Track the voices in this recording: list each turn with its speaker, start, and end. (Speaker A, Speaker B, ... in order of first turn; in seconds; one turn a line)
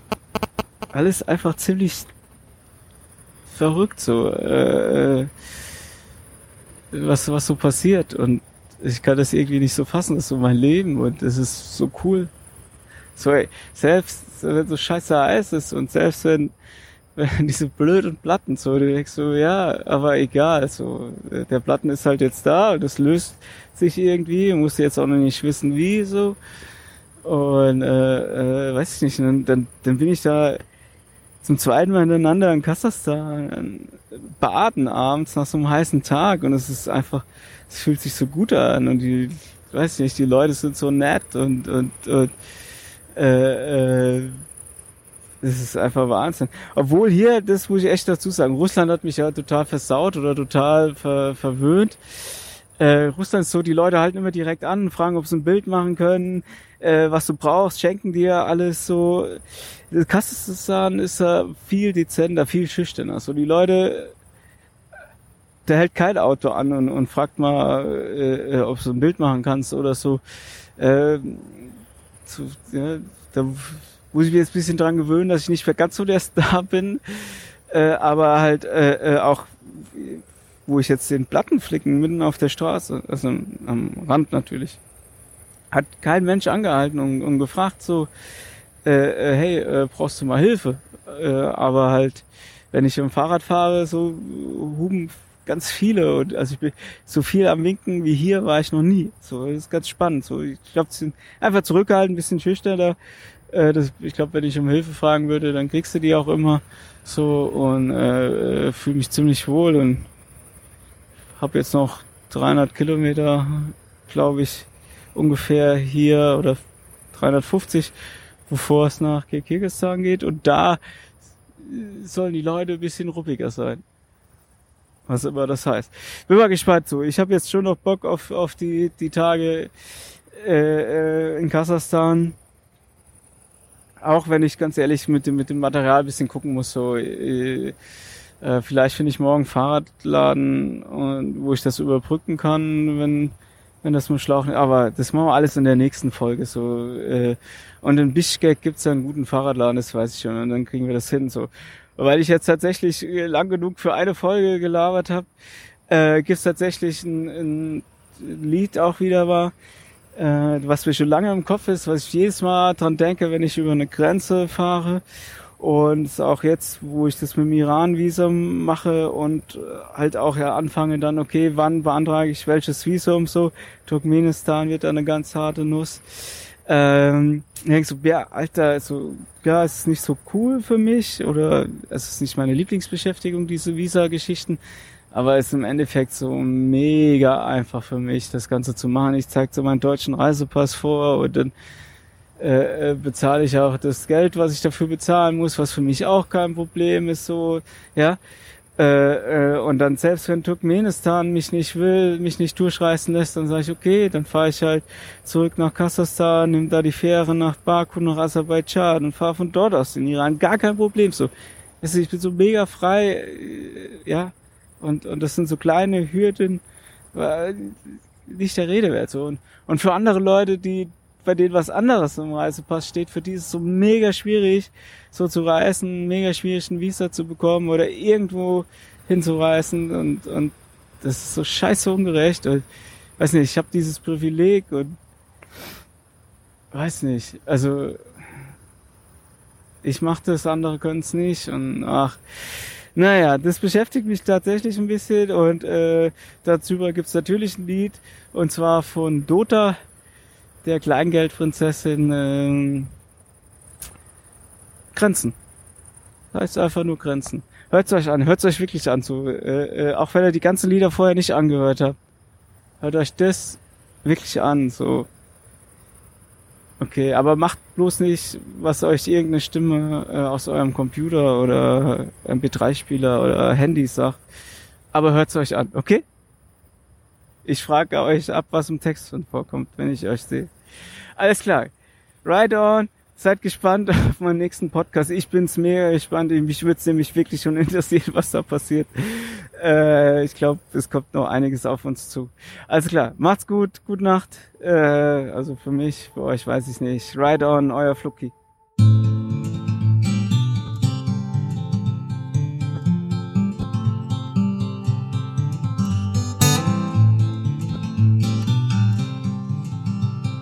Speaker A: 0.9-2.1
Speaker A: 3.5-5.3
Speaker A: 6.9-12.3
Speaker A: 13.1-16.5
Speaker A: 17.1-26.4
Speaker A: 27.2-30.6
Speaker A: 31.4-42.3
Speaker A: 43.1-44.4
Speaker A: 45.4-52.0
Speaker A: 52.8-59.4
Speaker A: 59.9-64.1
Speaker A: 65.7-70.2
Speaker A: 70.8-71.7
Speaker A: 72.2-84.8
Speaker A: 85.7-88.1
Speaker A: 88.8-103.0
Speaker A: 103.5-110.0
Speaker A: 111.4-116.6
Speaker A: 117.1-117.9
Speaker A: 118.5-120.8
Speaker A: 121.6-123.8
Speaker A: 125.1-129.7
Speaker A: 130.3-132.3
Speaker A: 134.0-137.7
Speaker A: 138.4-155.3
Speaker A: 155.9-159.5
Speaker A: 160.2-165.0
Speaker A: 165.6-184.6
Speaker A: 185.1-191.5
Speaker A: 192.4-198.2
Speaker A: 198.8-216.6
Speaker A: 217.1-232.6
Speaker A: 233.2-234.9
Speaker A: 236.7-238.0
Speaker A: 239.8-249.8
Speaker A: 250.6-252.9
Speaker A: 254.9-255.3
Speaker A: 256.3-261.9
Speaker A: 262.8-265.1
Speaker A: 266.8-274.2
Speaker A: 274.9-276.0
Speaker A: 277.4-280.5
Speaker A: 281.2-281.7
Speaker A: 282.2-298.3